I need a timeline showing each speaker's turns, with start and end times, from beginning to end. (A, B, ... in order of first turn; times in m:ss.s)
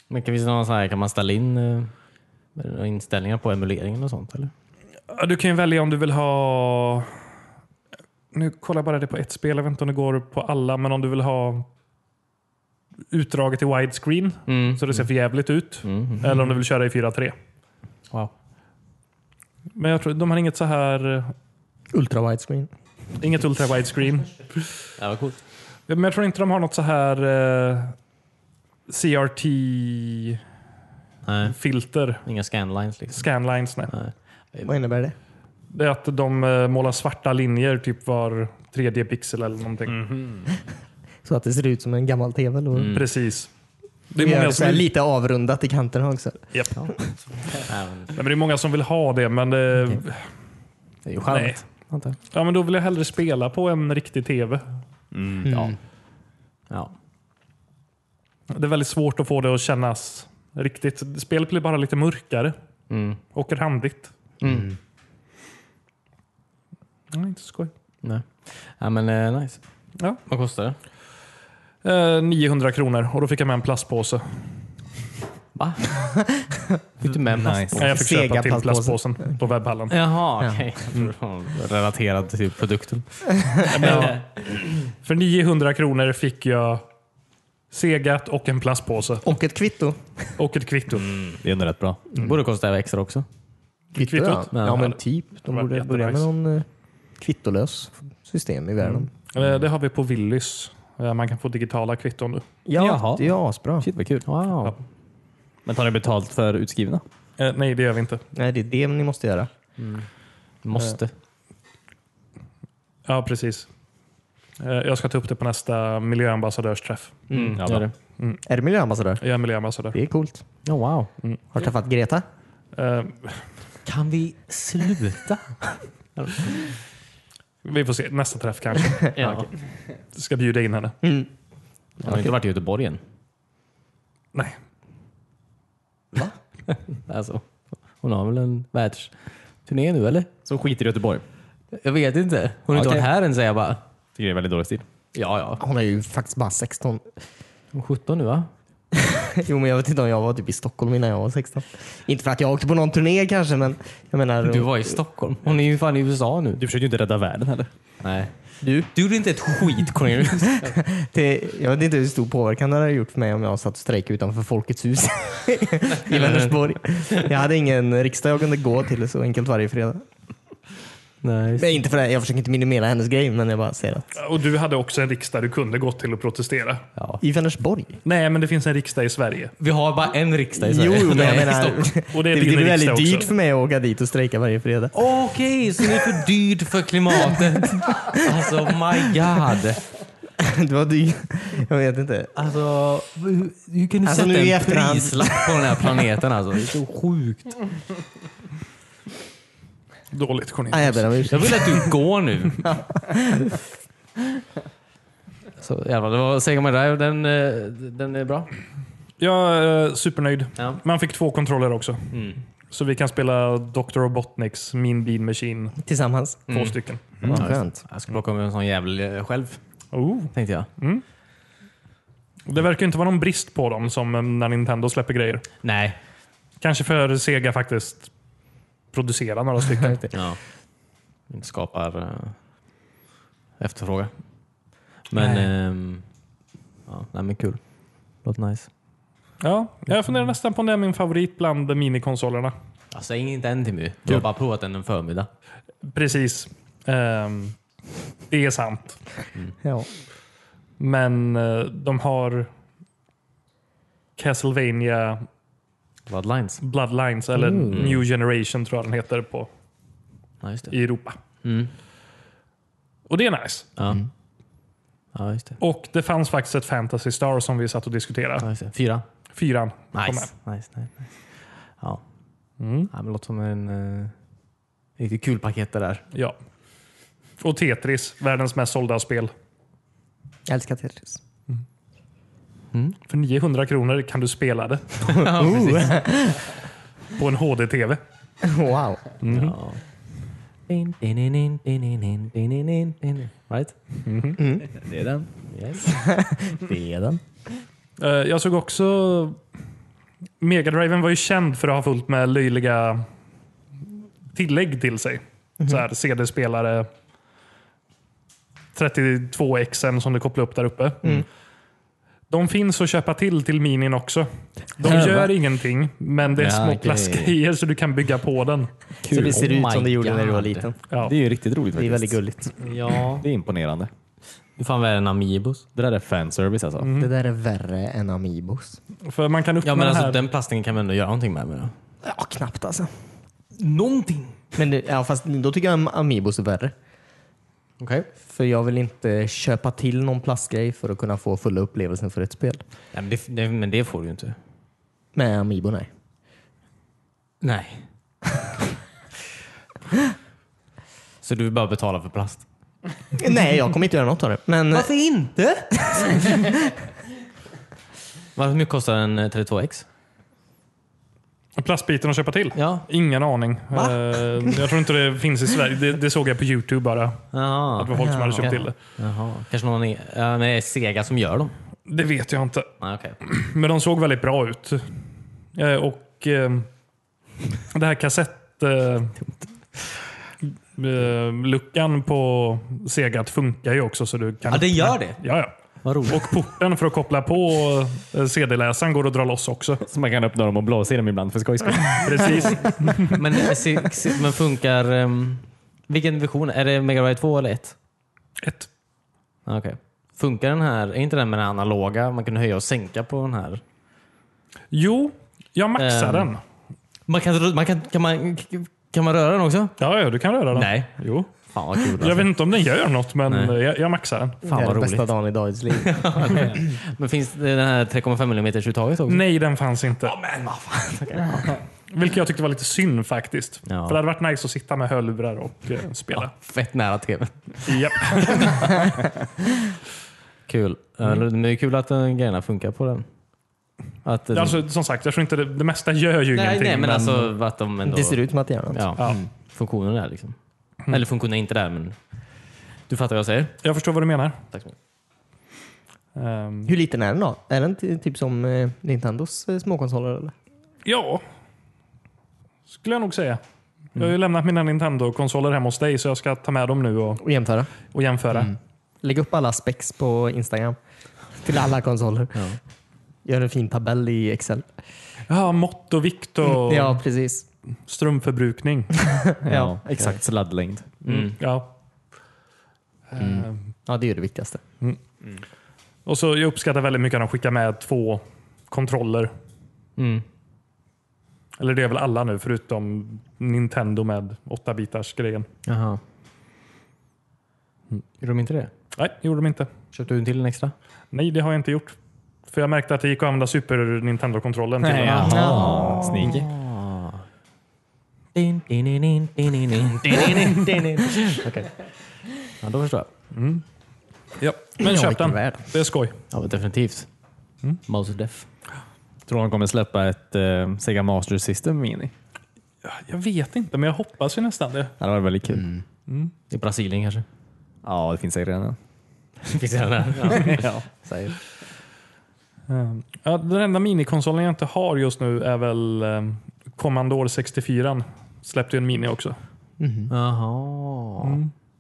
0:00.1-0:01.9 A
0:02.6-0:04.5 A
0:05.1-0:07.2 B
0:08.3-0:11.7 B
0:13.1-0:17.4 B
0:14.5-0:15.0 A
0:15.8-0:16.4 A
0:19.8-0:21.3 B
0:21.9-0:22.7 C
0:23.2-0:24.4 B
0:25.0-0:25.4 A
0:25.9-0:28.0 B
0:28.9-0:30.4 B
0:31.2-0:31.6 A
0:31.5-0:32.2 B
0:32.2-0:33.2 A
0:33.1-0:33.9 B
0:33.9-0:34.7 A
0:34.6-0:35.1 C
0:35.7-0:40.0 B
0:39.9-0:40.5 D
0:41.2-0:43.0 C
0:42.7-0:43.1 A
0:42.9-0:43.5 B
0:44.1-0:44.9 B
0:44.2-0:46.4 C
0:47.5-0:48.1 A
0:48.1-0:50.2 B
0:51.1-0:52.2 A
0:51.3-0:51.6 B
0:52.3-0:54.6 B
0:55.1-0:55.5 D
0:55.4-0:55.8 C
0:55.5-0:55.8 A
0:58.5-1:02.6 B
1:02.9-1:03.2 A
1:03.3-1:04.1 B
1:04.4-1:04.7 A
1:04.4-1:04.7 C
1:07.1-1:07.7 B
1:08.0-1:09.6 A
1:10.3-1:10.8 A
1:11.8-1:14.5 B
1:15.6-1:16.0 A
1:16.1-1:16.6 C
1:17.0-1:17.8 A
1:17.3-1:17.8 D
1:17.8-1:20.0 B
1:17.8-1:19.0 C
1:19.9-1:24.2 A
1:23.5-1:24.1 C
1:23.7-1:24.3 B
1:24.9-1:26.8 B
1:27.7-1:29.3 B
1:29.2-1:30.3 C
1:30.4-1:31.2 B
1:31.0-1:31.4 A
1:31.4-1:32.0 D
1:32.1-1:33.3 A
1:34.0-1:36.3 B
1:34.0-1:36.6 C
1:34.5-1:34.9 A
1:37.2-1:39.1 C
1:38.9-1:42.4 B
1:42.6-1:43.9 C
1:42.8-1:43.3 D
1:43.8-1:44.3 D
1:44.2-1:44.8 A
1:45.6-1:47.0 D
1:47.4-1:48.2 B
1:48.3-1:49.5 C
1:49.8-1:50.1 A
1:50.6-1:51.1 A
1:53.1-1:53.7 B
1:54.6-1:57.2 B
1:57.3-1:57.6 C
1:57.3-1:57.9 A
1:57.6-1:57.8 D
1:58.5-1:59.2 C
1:59.2-2:00.0 B
1:59.9-2:00.4 C
2:00.6-2:01.1 A
2:01.5-2:02.2 C
2:02.8-2:03.5 B
2:03.8-2:06.7 A
2:07.6-2:09.2 B
2:09.1-2:09.5 A
2:10.1-2:11.0 B
2:11.0-2:11.3 C
2:12.0-2:12.3 C
2:12.0-2:13.0 A
2:16.7-2:19.1 A
2:19.6-2:20.3 A
2:20.5-2:21.2 D
2:21.7-2:23.8 A
2:22.7-2:23.1 D
2:24.2-2:24.8 D
2:25.1-2:25.6 A
2:25.6-2:27.0 C
2:27.7-2:28.5 A
2:29.0-2:34.8 C
2:34.4-2:36.6 A
2:36.6-2:37.7 D
2:38.0-2:38.3 A
2:38.6-2:38.9 C
2:38.9-2:40.7 A
2:40.6-2:50.0 C
2:46.0-2:46.6 A
2:51.2-2:51.7 A
2:51.6-2:54.1 C
2:54.2-2:56.8 B
2:57.0-2:57.2 A
2:57.2-2:58.0 C
2:58.0-2:59.5 B
2:59.6-3:01.9 A
3:00.6-3:04.9 C
3:02.1-3:03.3 B
3:04.9-3:09.8 A
3:05.8-3:06.1 C
3:07.3-3:08.5 C
3:10.4-3:12.3 C
3:12.4-3:17.6 A
3:14.0-3:15.9 C
3:20.1-3:21.6 B
3:20.7-3:21.9 C
3:21.3-3:22.6 A
3:22.6-3:23.6 C
3:25.6-3:28.5 A
3:29.2-3:32.2 B
3:32.1-3:32.4 A
3:32.7-3:35.8 B
3:35.8-3:36.4 C
3:36.5-3:36.8 A
3:36.5-3:37.0 B
3:37.2-3:37.8 C
3:37.3-3:39.6 A
3:39.9-3:41.0 B
3:40.3-3:40.7 A
3:42.5-3:45.5 B
3:45.6-3:46.0 A
3:46.6-3:48.1 B
3:48.9-3:50.1 B
3:50.1-3:50.4 A
3:51.3-3:52.4 A
3:53.6-3:54.1 A
3:55.1-3:56.0 A
3:56.9-3:57.6 A
3:58.2-3:58.7 A
3:59.4-4:02.5 B
4:02.9-4:05.3 A
4:05.8-4:07.6 B
4:08.3-4:09.0 B
4:09.6-4:09.9 C
4:10.8-4:12.5 B
4:14.2-4:15.3 B
4:16.1-4:16.6 A
4:16.6-4:19.5 B
4:17.5-4:17.8 C
4:17.6-4:18.0 A
4:20.4-4:20.8 A
4:20.7-4:21.2 B
4:21.4-4:21.7 A
4:23.1-4:23.7 B
4:23.8-4:24.0 A
4:25.1-4:25.6 A
4:25.6-4:28.5 B
4:28.4-4:29.0 A
4:29.4-4:30.3 B
4:29.9-4:32.0 A
4:32.6-4:32.9 B
4:32.9-4:34.1 A
4:35.0-4:36.0 A
4:37.4-4:39.3 B
4:40.5-4:41.2 C
4:43.1-4:45.1 B
4:45.0-4:46.1 A
4:45.1-4:46.5 C
4:47.1-4:48.0 B
4:48.4-4:49.1 C
4:49.2-4:49.6 B
4:49.3-4:49.8 A
4:50.7-4:53.8 A
4:54.1-4:54.4 B
4:54.4-4:54.7 C
4:54.7-4:55.3 D
4:55.5-4:55.9 A
4:55.9-4:57.2 C
4:58.0-4:59.4 B
5:00.4-5:03.1 B
5:04.3-5:06.9 B
5:08.8-5:11.2 B
5:12.3-5:18.7 B
5:14.8-5:15.3 D
5:16.4-5:17.2 D
5:16.9-5:17.2 A
5:19.0-5:19.5 D
5:19.1-5:20.7 A
5:19.1-5:20.8 C
5:21.0-5:22.2 D
5:21.8-5:22.6 C
5:22.6-5:23.2 A
5:23.2-5:23.9 D
5:24.6-5:25.6 A
5:25.8-5:26.9 D
5:26.8-5:27.1 B
5:27.0-5:28.8 C
5:29.0-5:30.2 B
5:29.6-5:31.7 A
5:32.0-5:33.0 C
5:33.6-5:34.4 A
5:34.6-5:36.7 C
5:37.8-5:38.1 A
5:38.2-5:42.6 C
5:42.9-5:44.4 A
5:45.1-5:45.9 C
5:47.4-5:47.9 A
5:51.2-5:52.4 A
5:53.2-5:54.9 C
5:54.7-5:56.2 A
5:55.9-5:56.5 C
5:58.4-5:59.9 A
6:01.6-6:08.7 B
6:02.6-6:02.9 A
6:03.7-6:04.2 A
6:07.3-6:11.5 A
6:07.9-6:08.7 C
6:11.9-6:12.7 B
6:12.8-6:13.2 A
6:13.2-6:15.0 B
6:15.6-6:16.7 B
6:17.7-6:19.2 B
6:20.8-6:25.5 B
6:24.5-6:25.2 A
6:25.8-6:26.3 A
6:26.0-6:29.8 B
6:29.9-6:32.5 D
6:32.0-6:33.2 B
6:33.1-6:37.8 A
6:38.4-6:38.7 B
6:39.4-6:43.6 A
6:44.7-6:46.4 B
6:45.8-6:46.3 A
6:47.1-6:49.8 A
6:49.8-6:51.3 B
6:50.5-6:50.9 A
6:51.4-6:52.3 A
6:51.9-6:54.4 B
6:53.3-6:53.6 A
6:54.4-6:55.1 A
6:54.4-6:56.6 C
6:55.7-6:59.2 A
6:59.1-7:00.1 B
7:00.0-7:01.6 A
7:01.9-7:06.3 B
7:03.7-7:04.0 A
7:06.1-7:08.8 A
7:07.6-7:08.9 B
7:10.5-7:13.0 A
7:14.0-7:14.6 A
7:14.3-7:17.3 B
7:16.3-7:18.2 A
7:17.9-7:19.3 C
7:18.7-7:22.0 A
7:22.9-7:23.6 A
7:23.6-7:24.4 B
7:26.2-7:26.7 B
7:26.7-7:30.3 C
7:30.8-7:31.2 B
7:32.7-7:33.4 B
7:33.9-7:37.2 B
7:37.2-7:37.7 C
7:37.8-7:38.5 B
7:38.3-7:40.8 C
7:41.4-7:42.4 C
7:43.2-7:44.7 C
7:45.3-7:47.0 B
7:46.4-7:47.4 C
7:47.9-7:49.1 B
7:49.0-7:49.8 C
7:49.4-7:50.9 D
7:51.0-7:51.4 A
7:51.0-7:51.7 B
7:53.1-7:53.6 B
7:53.2-7:54.6 C
7:56.0-7:59.3 B
8:00.0-8:00.2 A
8:01.6-8:05.5 B
8:05.7-8:06.0 A
8:08.2-8:08.7 A
8:09.0-8:09.7 B
8:09.9-8:10.7 A
8:11.1-8:12.0 B
8:12.5-8:15.6 B
8:14.8-8:16.5 D
8:15.1-8:17.2 A
8:15.4-8:16.1 C
8:16.2-8:16.4 B
8:18.3-8:21.8 A
8:22.4-8:23.1 A
8:23.3-8:23.6 B
8:24.4-8:26.2 B
8:24.8-8:25.6 C
8:26.3-8:27.1 A
8:27.9-8:28.5 A
8:29.3-8:32.1 D
8:32.8-8:34.9 B
8:35.0-8:35.7 D
8:35.5-8:35.8 C
8:36.1-8:36.3 B
8:36.5-8:37.2 A
8:37.8-8:38.8 D
8:39.4-8:41.4 A
8:40.3-8:40.9 D
8:42.7-8:49.4 B
8:49.8-8:50.1 C
8:50.1-8:51.4 A
8:51.2-8:51.5 B